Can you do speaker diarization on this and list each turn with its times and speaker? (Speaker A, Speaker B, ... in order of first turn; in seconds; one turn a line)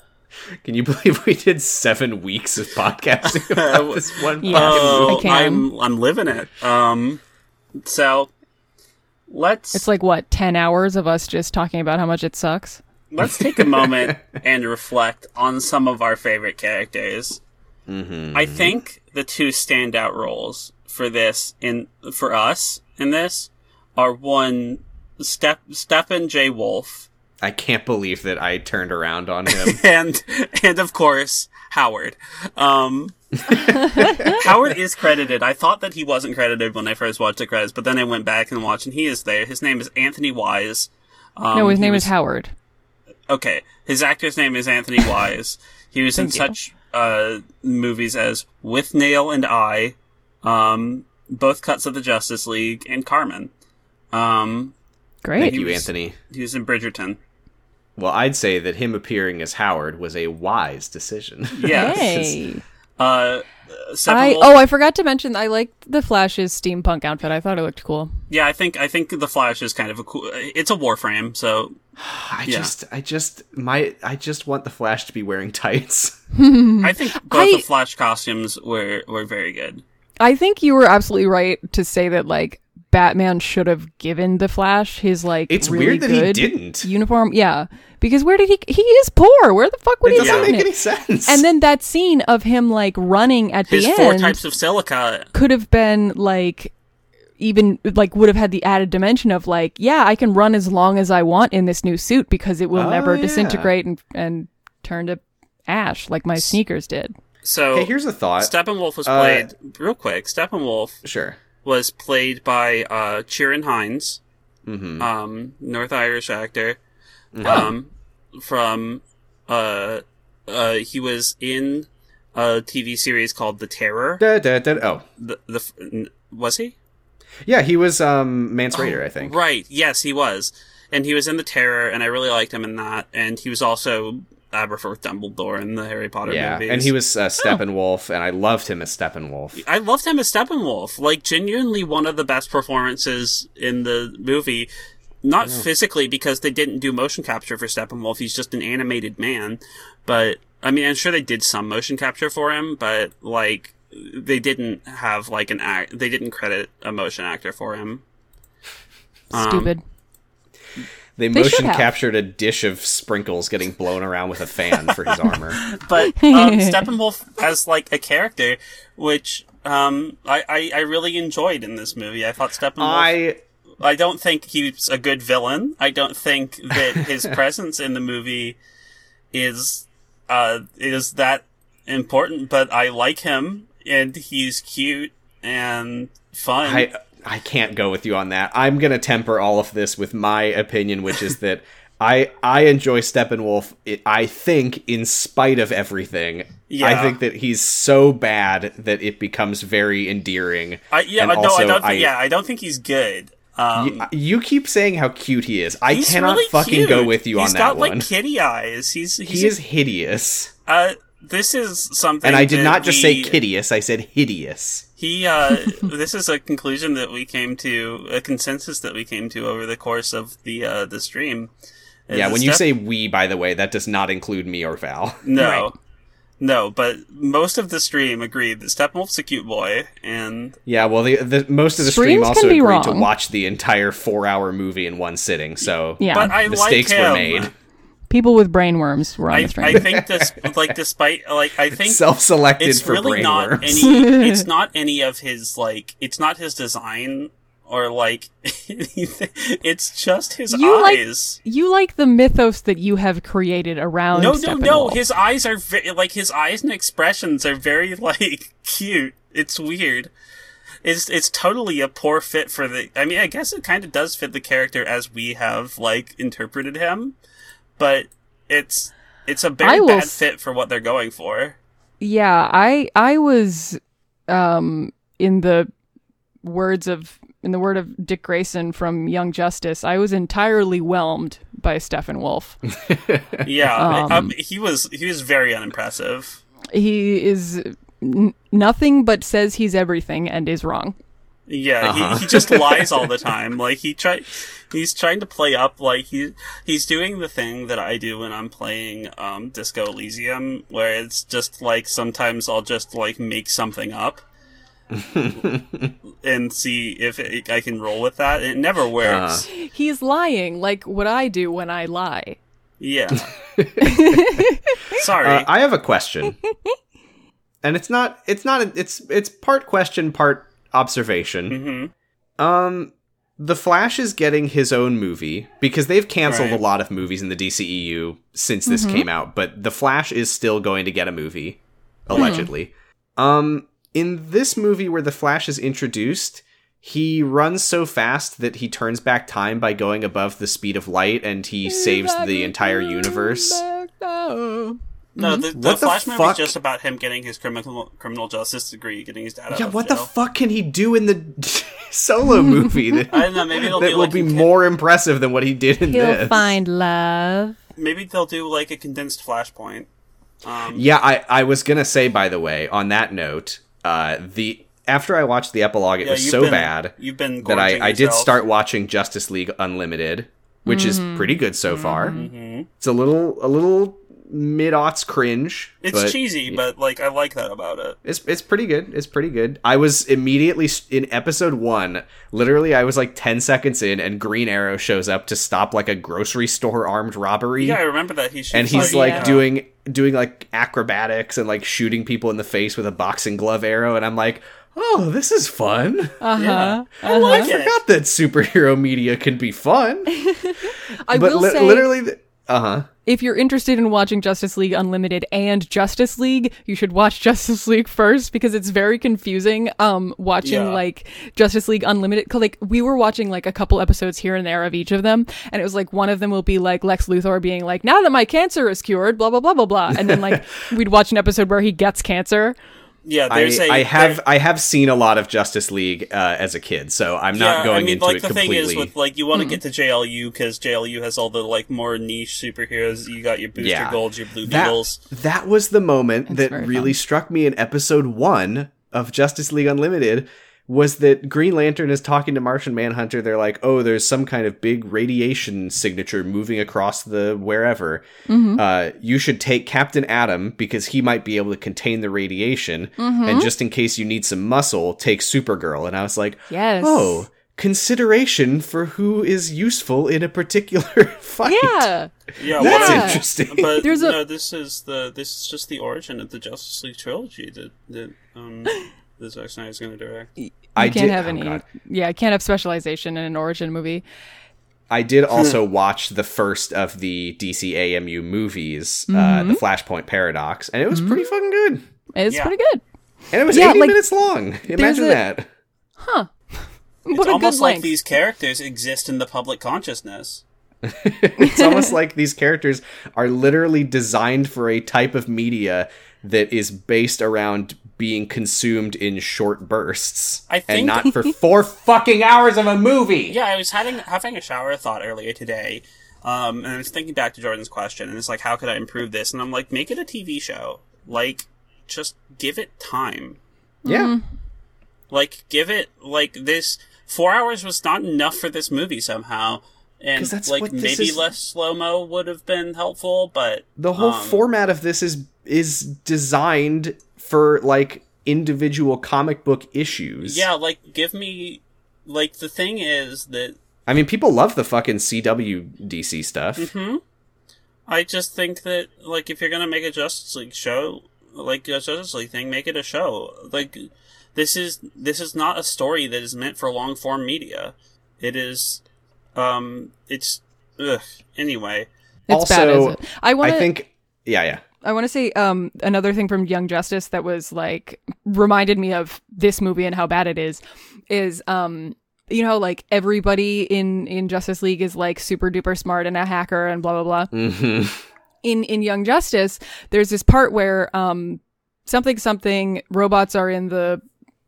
Speaker A: 0.6-5.3
Speaker B: 3.3-7.2
Speaker C: 4.4-5.7
Speaker B: 7.8-8.3
Speaker B: 9.3-9.8
Speaker C: 9.7-12.8
Speaker B: 13.1-17.4
Speaker A: 13.4-14.3
Speaker A: 17.9-18.7
Speaker B: 18.3-27.1
Speaker A: 27.4-29.8
Speaker B: 29.5-33.1
Speaker A: 33.5-34.3
Speaker C: 33.9-34.3
Speaker B: 34.0-42.1
Speaker C: 41.5-42.5
Speaker B: 43.3-53.5
Speaker C: 46.1-46.5
Speaker B: 54.1-54.7
Speaker C: 55.2-55.6
Speaker A: 55.4-56.1
Speaker B: 55.4-57.2
Speaker A: 58.0-62.4
Speaker B: 61.5-62.0
Speaker C: 61.7-62.6
Speaker B: 63.0-64.6
Speaker C: 64.1-68.1
Speaker B: 68.3-71.7
Speaker A: 72.0-76.2
Speaker B: 72.5-72.7
Speaker C: 76.3-77.7
Speaker B: 76.8-79.8
Speaker C: 80.2-90.7
Speaker A: 85.5-86.9
Speaker A: 90.0-91.4
Speaker B: 90.2-90.5
Speaker C: 91.2-94.4
Speaker B: 93.7-95.3
Speaker C: 95.3-96.7
Speaker C: 97.4-107.1
Speaker A: 102.7-103.7
Speaker B: 107.4-111.0
Speaker A: 107.7-108.5
Speaker A: 109.0-109.5
Speaker A: 111.0-111.4
Speaker B: 111.6-114.2
Speaker A: 114.7-115.1
Speaker B: 115.0-116.8
Speaker A: 117.3-117.7
Speaker B: 117.4-124.2
Speaker C: 117.5-117.7
Speaker A: 124.2-125.0
Speaker B: 125.2-126.8
Speaker A: 127.4-129.3
Speaker B: 128.7-136.9
Speaker A: 136.2-139.6
Speaker B: 139.6-144.7
Speaker B: 145.2-158.0
Speaker C: 159.3-159.8
Speaker B: 159.3-159.7
Speaker A: 161.2-165.6
Speaker C: 161.3-161.9
Speaker B: 164.9-173.1
Speaker C: 166.0-166.8
Speaker A: 172.8-173.4
Speaker B: 173.8-178.6
Speaker B: 179.3-186.9
Speaker A: 186.6-202.1
Speaker B: 196.7-197.2
Speaker B: 200.9-204.1
Speaker A: 203.7-208.1
Speaker B: 205.9-209.6
Speaker A: 209.2-210.5
Speaker B: 210.7-213.4
Speaker A: 212.2-214.8
Speaker B: 215.0-221.5
Speaker B: 222.1-222.7
Speaker A: 222.1-225.2
Speaker B: 225.2-225.7
Speaker C: 225.4-225.7
Speaker B: 226.4-230.6
Speaker A: 230.7-237.5
Speaker C: 231.8-233.1
Speaker C: 236.0-236.4
Speaker B: 236.1-237.5
Speaker C: 238.1-239.8
Speaker B: 239.3-242.0
Speaker A: 239.7-240.7
Speaker A: 241.7-243.8
Speaker B: 242.6-251.4
Speaker C: 243.7-244.4
Speaker C: 250.5-255.0
Speaker B: 254.1-260.1
Speaker B: 260.8-267.1
Speaker B: 267.8-271.6
Speaker C: 269.6-270.2
Speaker C: 272.0-275.7
Speaker C: 276.4-282.6
Speaker A: 282.9-283.5
Speaker B: 283.4-286.4
Speaker C: 283.8-284.3
Speaker C: 286.7-290.9
Speaker B: 291.5-304.2
Speaker A: 291.8-293.1
Speaker A: 304.9-305.9
Speaker B: 306.2-309.4
Speaker A: 309.0-309.4
Speaker C: 309.5-312.4
Speaker B: 312.8-313.3
Speaker A: 313.6-314.4
Speaker C: 313.8-314.7
Speaker B: 314.9-315.5
Speaker A: 315.0-316.4
Speaker A: 317.6-321.6
Speaker B: 321.5-321.9
Speaker A: 322.4-343.6
Speaker B: 326.2-326.6
Speaker C: 328.7-329.1
Speaker C: 332.1-332.5
Speaker C: 341.6-345.4
Speaker B: 345.2-350.1
Speaker A: 345.5-346.5
Speaker A: 349.5-356.6
Speaker B: 353.1-354.5
Speaker C: 355.8-357.6
Speaker B: 357.8-359.9
Speaker B: 360.4-360.9
Speaker A: 360.7-372.2
Speaker B: 366.0-368.3
Speaker C: 370.7-372.2
Speaker B: 372.1-372.7
Speaker A: 372.8-376.6
Speaker B: 375.8-378.0
Speaker A: 378.0-387.8
Speaker B: 387.6-389.4
Speaker A: 388.5-396.3
Speaker C: 388.7-389.4
Speaker C: 396.2-397.5
Speaker B: 396.4-397.8
Speaker A: 397.0-400.2
Speaker C: 400.3-401.9
Speaker A: 401.1-402.9
Speaker C: 403.1-422.6
Speaker B: 410.4-410.8
Speaker A: 419.9-420.5
Speaker B: 423.0-424.2
Speaker A: 423.3-428.9
Speaker B: 427.3-435.0
Speaker C: 429.3-429.6
Speaker A: 433.6-461.9
Speaker C: 436.3-436.9
Speaker C: 448.3-448.6
Speaker C: 453.0-453.5
Speaker C: 456.5-457.2
Speaker C: 461.4-463.2
Speaker B: 462.4-470.3
Speaker A: 462.5-463.8
Speaker C: 463.8-464.2
Speaker C: 470.4-474.0
Speaker A: 470.8-471.6
Speaker A: 474.9-481.8
Speaker C: 479.1-479.6
Speaker C: 482.1-482.8
Speaker B: 482.3-482.5
Speaker A: 483.3-485.5
Speaker C: 483.5-484.0
Speaker C: 484.7-485.2
Speaker C: 486.0-486.3
Speaker C: 487.1-487.9
Speaker B: 487.1-490.4
Speaker A: 490.8-503.4
Speaker C: 491.4-491.9
Speaker B: 500.5-501.1
Speaker B: 503.3-513.4
Speaker A: 513.8-514.1
Speaker C: 513.8-514.2
Speaker B: 515.1-524.4
Speaker A: 520.1-521.2
Speaker A: 523.8-530.5
Speaker B: 530.2-533.5
Speaker A: 533.9-536.7
Speaker B: 536.6-537.0
Speaker B: 537.9-548.8
Speaker B: 549.3-551.9
Speaker C: 552.3-553.7
Speaker A: 552.3-554.6
Speaker C: 554.8-567.3
Speaker A: 567.3-568.0
Speaker C: 568.4-574.0